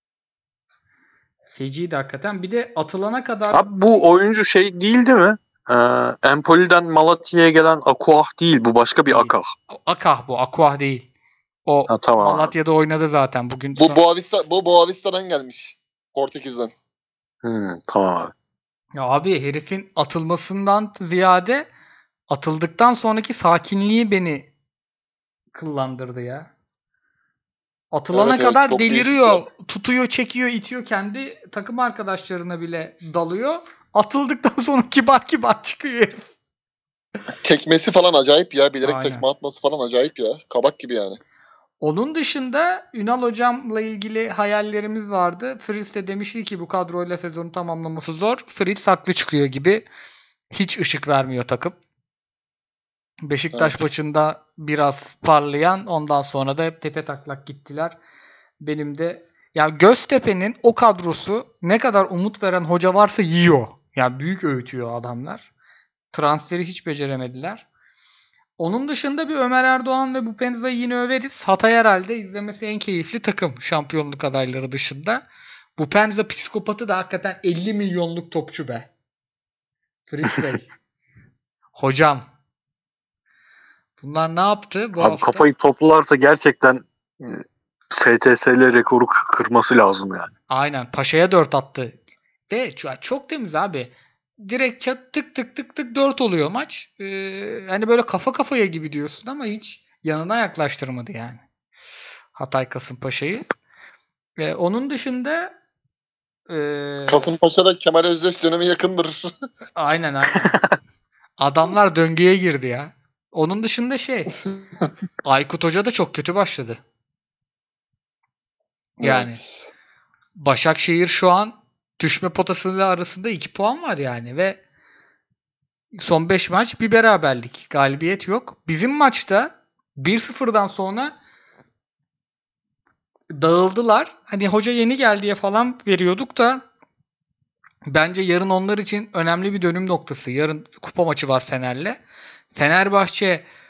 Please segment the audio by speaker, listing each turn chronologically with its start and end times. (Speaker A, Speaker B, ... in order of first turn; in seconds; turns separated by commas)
Speaker A: 1.5-3.6, Speaker B: 3.5-9.5, Speaker A: 9.1-11.1, Speaker A: 11.7-14.0, Speaker B: 11.9-12.5, Speaker C: 13.8-16.7, Speaker B: 17.4-18.3, Speaker A: 19.0-21.7, Speaker A: 22.3-24.5, Speaker A: 25.5-26.5, Speaker A: 27.9-36.3, Speaker C: 28.1-29.4, Speaker C: 37.4-41.2, Speaker A: 38.8-39.2, Speaker A: 41.8-49.9, Speaker A: 50.5-51.8, Speaker A: 53.2-58.0, Speaker A: 58.6-65.5, Speaker A: 66.1-67.7, Speaker A: 68.6-75.2, Speaker A: 75.8-78.9, Speaker A: 80.1-80.7, Speaker A: 81.8-82.3, Speaker A: 84.0-85.4, Speaker B: 85.0-90.3, Speaker A: 90.5-101.4, Speaker A: 102.3-103.4, Speaker A: 104.4-105.5, Speaker A: 106.5-107.3, Speaker C: 107.1-109.3, Speaker A: 109.8-110.6, Speaker B: 110.3-110.7, Speaker A: 111.4-114.3, Speaker A: 115.2-116.8, Speaker C: 119.0-119.6, Speaker A: 119.0-119.4, Speaker A: 120.3-124.6, Speaker A: 125.9-131.2, Speaker A: 133.3-136.6, Speaker A: 137.9-142.0, Speaker A: 142.5-143.4